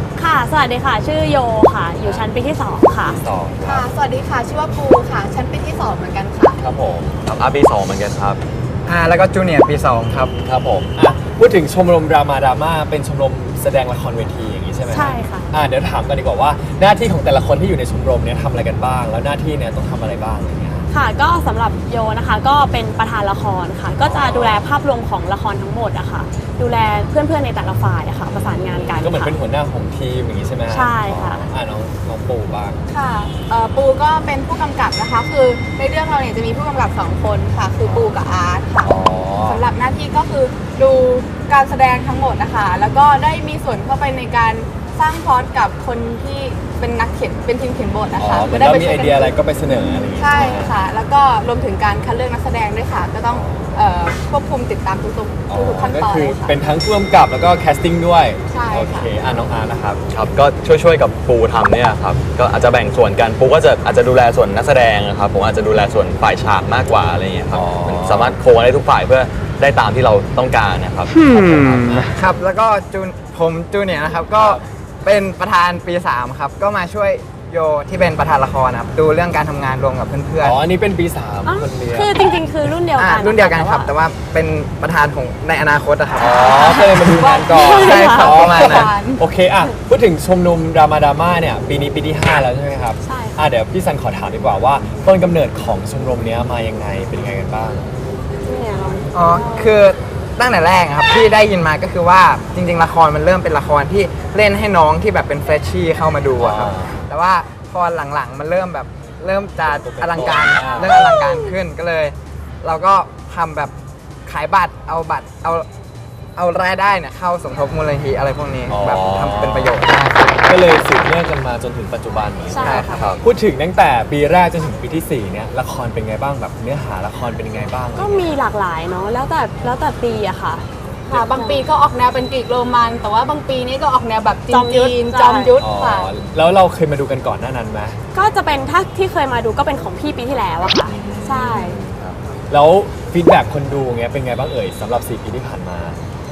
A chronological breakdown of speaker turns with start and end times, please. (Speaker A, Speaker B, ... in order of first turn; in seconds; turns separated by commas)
Speaker A: 0.1-3.2, Speaker B: 2.0-2.3, Speaker B: 3.0-3.9, Speaker C: 3.6-6.6, Speaker D: 6.6-8.4, Speaker E: 8.8-10.3, Speaker D: 10.4-10.9, Speaker B: 10.9-20.9, Speaker A: 14.9-15.5, Speaker A: 20.9-29.3, Speaker B: 24.0-24.6, Speaker B: 28.3-32.8, Speaker A: 30.7-31.4, Speaker C: 32.9-38.9, Speaker B: 37.8-38.2, Speaker B: 38.8-39.6, Speaker C: 39.4-49.3, Speaker B: 48.2-50.7, Speaker C: 50.1-56.5, Speaker B: 53.3-53.8, Speaker B: 55.5-60.0, Speaker C: 58.5-59.1, Speaker D: 60.1-72.0, Speaker B: 67.5-68.4, Speaker E: 71.1-80.6, Speaker B: 71.8-72.2, Speaker B: 74.3-74.6, Speaker B: 80.4-82.1, Speaker A: 81.4-83.9, Speaker E: 83.0-86.7, Speaker B: 86.2-97.9, Speaker C: 86.6-89.2, Speaker A: 87.5-88.5, Speaker E: 87.8-88.9, Speaker A: 93.0-93.4, Speaker A: 98.4-99.8, Speaker E: 99.1-113.7, Speaker B: 106.4-107.0, Speaker B: 109.7-111.3, Speaker E: 114.2-115.7, Speaker E: 116.3-120.3, Speaker B: 118.7-119.8, Speaker B: 120.4-128.4, Speaker A: 122.5-123.0, Speaker E: 122.6-123.0, Speaker D: 122.9-123.2, Speaker A: 128.0-131.6, Speaker C: 131.1-136.1, Speaker A: 134.5-135.5, Speaker B: 135.6-138.0, Speaker A: 138.1-141.8, Speaker B: 140.9-146.0